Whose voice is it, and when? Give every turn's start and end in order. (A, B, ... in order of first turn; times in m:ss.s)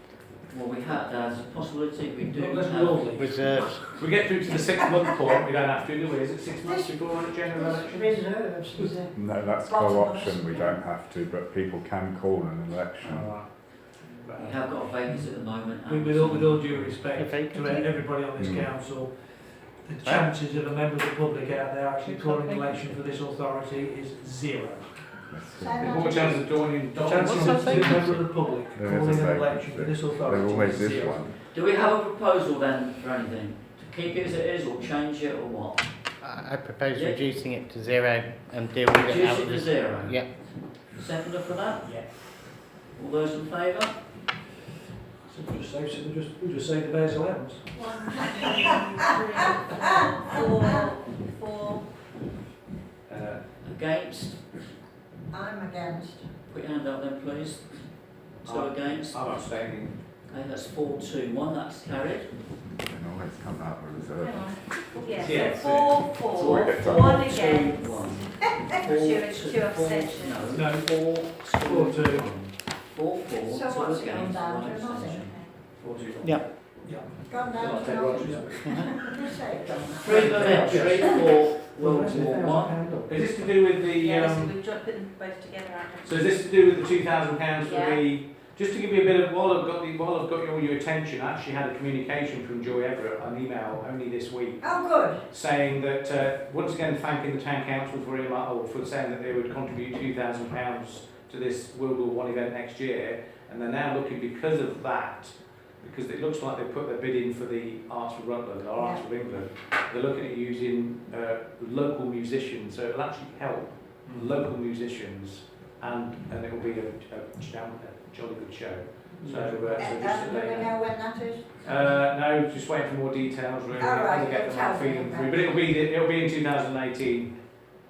0:00.4-0:03.3 A
0:02.3-0:03.7 B
0:03.1-0:03.9 C
0:03.8-0:08.2 D
0:06.6-0:09.2 E
0:09.1-0:13.3 F
0:09.6-0:10.8 G
0:13.0-0:14.7 D
0:14.4-0:16.7 A
0:15.8-0:25.2 B
0:17.1-0:17.9 C
0:18.3-0:18.7 F
0:22.0-0:22.8 C
0:25.3-0:26.0 F
0:25.5-0:26.4 E
0:25.8-0:28.0 D
0:27.0-0:31.3 B
0:27.1-0:27.9 C
0:27.8-0:28.2 F
0:28.7-0:31.4 F
0:31.5-0:35.9 A
0:36.2-0:40.3 C
0:36.9-0:37.2 A
0:38.9-0:42.4 A
0:42.9-0:44.0 A
0:45.3-0:47.8 B
0:47.7-0:51.9 G
0:48.4-0:49.0 E
0:49.9-0:50.8 E
0:53.1-0:53.5 D
0:53.6-0:54.4 A
0:55.3-0:56.4 E
0:56.5-0:57.9 A
0:58.4-0:59.2 A
0:58.4-1:00.0 D
1:00.2-1:02.3 A
1:02.6-1:07.4 F
1:04.2-1:10.6 G
1:05.1-1:06.0 D
1:06.3-1:16.5 A
1:10.5-1:12.5 B
1:13.4-1:15.4 E
1:15.2-1:15.7 G
1:15.9-1:18.8 D
1:16.0-1:19.0 B
1:17.2-1:20.3 E
1:19.8-1:23.1 B
1:20.0-1:22.8 A
1:23.0-1:24.6 D
1:23.9-1:26.2 G
1:26.0-2:00.8 D
1:27.6-1:28.1 G
1:34.6-1:35.2 E
1:48.8-1:49.0 E
1:54.0-1:54.3 B
1:59.2-1:59.9 B
1:59.8-2:01.6 E
2:01.6-2:07.4 D
2:03.7-2:05.6 E